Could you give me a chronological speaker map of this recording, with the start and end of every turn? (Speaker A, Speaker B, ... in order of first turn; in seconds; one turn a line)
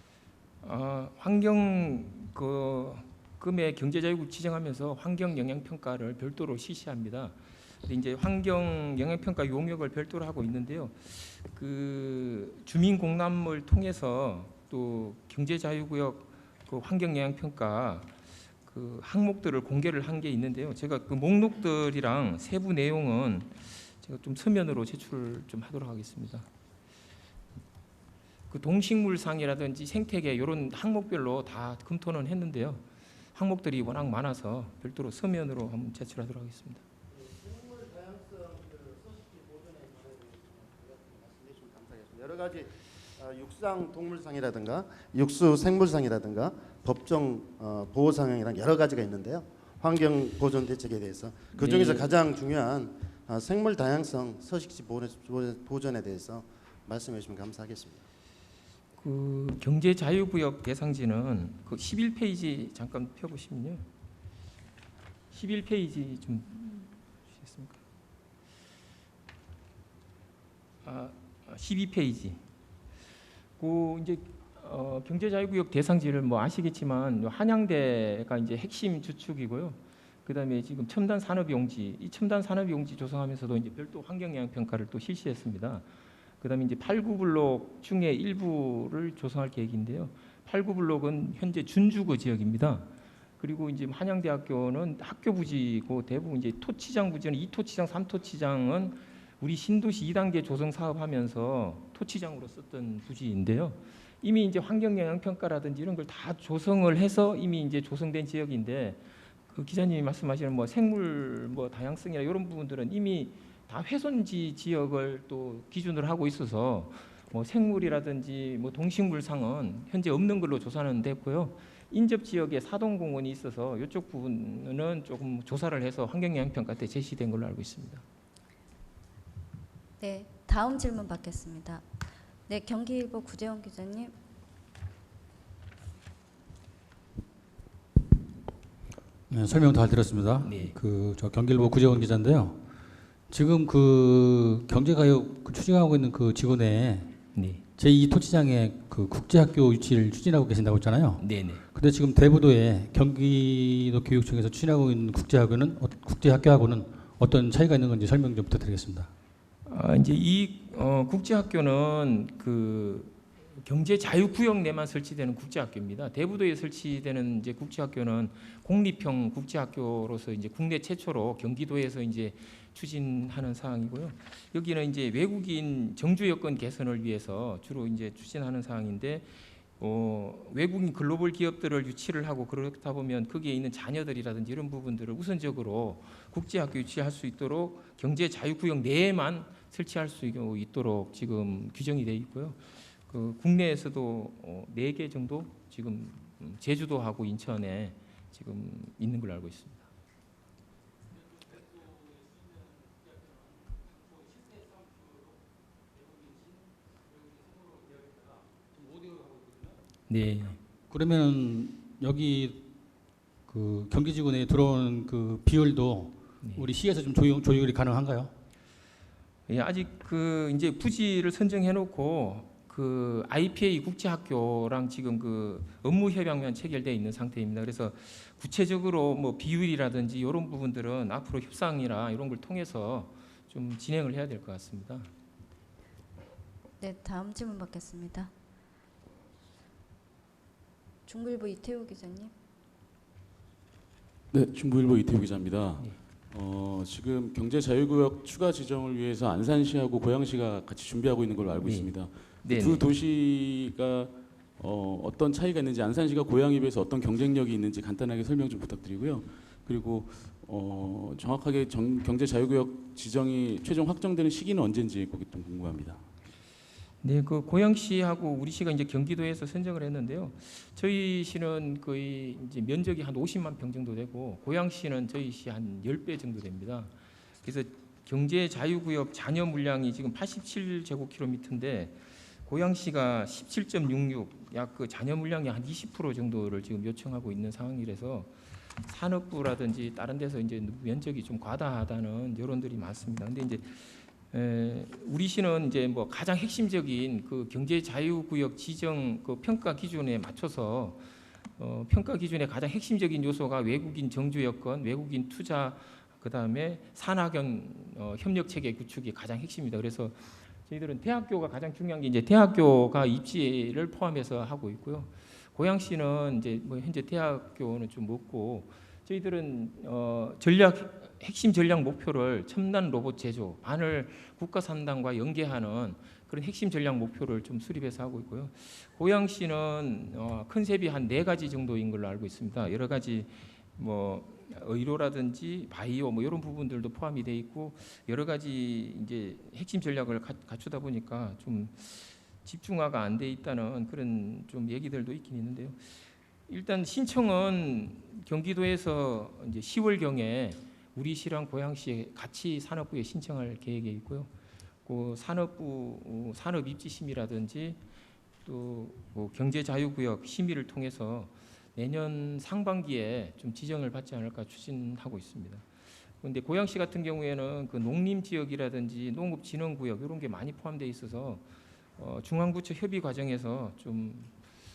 Speaker A: 0.6-18.1
Speaker A: 18.6-26.5
Speaker A: 28.5-36.8
Speaker B: 37.1-58.0
Speaker A: 51.5-52.2
Speaker A: 59.0-63.9
Speaker A: 65.3-67.8
Speaker A: 70.8-72.4
Speaker A: 73.6-85.8
Speaker A: 86.4-128.0
Speaker C: 130.0-131.8
Speaker C: 132.5-134.1
Speaker D: 139.3-142.6
Speaker A: 140.4-140.8
Speaker D: 143.3-147.2
Speaker A: 147.3-147.6
Speaker D: 147.8-159.1
Speaker A: 151.2-151.6
Speaker A: 159.7-199.9
Speaker A: 210.1-210.6
Speaker D: 210.9-212.7
Speaker D: 213.5-218.3
Speaker A: 216.4-216.7
Speaker A: 219.5-235.1
Speaker C: 236.8-238.3
Speaker C: 241.1-242.3
Speaker E: 244.3-266.0
Speaker A: 251.6-251.9
Speaker A: 252.4-252.8
Speaker A: 267.0-276.9
Speaker A: 277.4-301.0
Speaker A: 301.6-346.0
Speaker A: 346.5-354.3
Speaker A: 354.8-357.8
Speaker A: 358.4-365.6
Speaker A: 366.2-371.4
Speaker A: 372.0-374.3